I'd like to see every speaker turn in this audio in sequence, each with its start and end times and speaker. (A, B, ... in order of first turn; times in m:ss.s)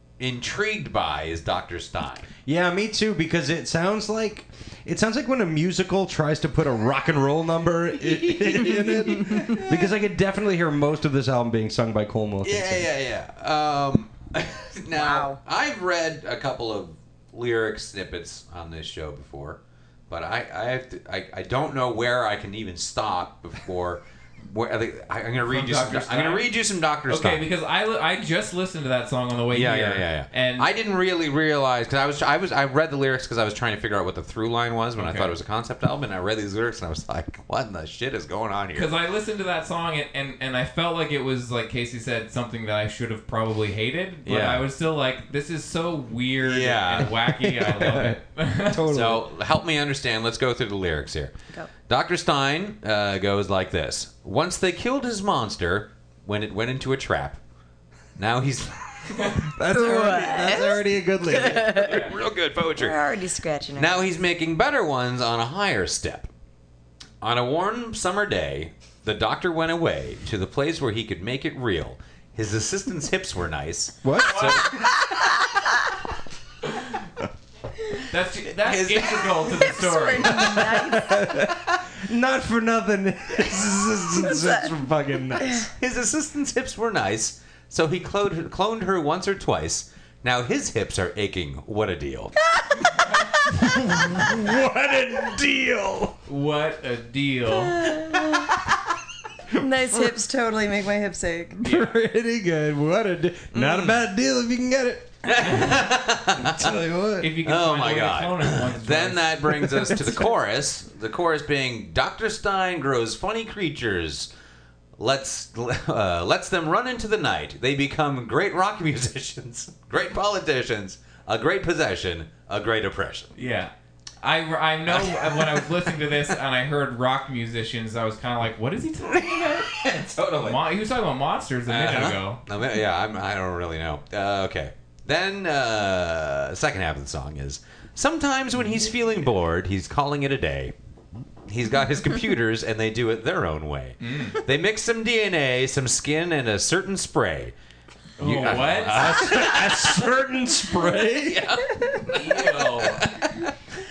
0:00.2-0:02.3 A
0:02.5-0:12.9 B
0:08.0-0:09.9 A
0:12.4-0:27.4 A
0:14.9-0:15.4 C
0:25.4-0:26.5 D
0:27.1-0:30.7 D
0:29.5-0:38.9 A
0:35.0-0:35.3 D
0:38.8-0:48.9 D
0:44.3-0:44.6 A
0:46.4-0:47.9 A
0:47.4-0:49.2 B
0:48.9-0:51.3 A
0:51.9-0:57.4 A
0:58.2-0:59.4 A
0:59.4-1:02.0 B
0:59.7-1:02.1 C
1:01.5-1:03.0 A
1:01.9-1:02.1 D
1:02.8-1:04.1 C
1:03.8-1:06.3 A
1:07.2-1:14.8 A
1:14.0-1:14.8 B
1:14.2-1:14.7 D
1:18.0-1:20.6 D
1:18.6-1:19.7 A
1:19.6-1:21.4 C
1:20.3-1:25.7 B
1:24.2-1:24.7 C
1:25.7-1:32.3 A
1:32.6-1:32.9 C
1:33.5-1:36.2 B
1:36.3-1:37.9 D
1:37.6-1:38.5 C
1:39.6-1:41.6 C
1:41.6-1:47.3 B
1:41.6-1:41.9 D
1:45.2-1:46.7 A
1:47.2-1:49.8 D
1:47.4-1:54.3 A
1:49.8-1:50.2 B
1:55.0-2:03.3 A
2:03.4-2:09.8 D
2:04.9-2:06.0 A
2:09.1-2:10.6 A
2:10.4-2:12.4 D
2:11.7-2:20.7 A
2:21.5-2:27.5 A
2:24.0-2:24.4 D
2:28.2-2:29.5 D
2:28.2-2:30.1 A
2:28.4-2:31.7 B
2:31.2-2:33.5 A
2:32.0-2:33.0 D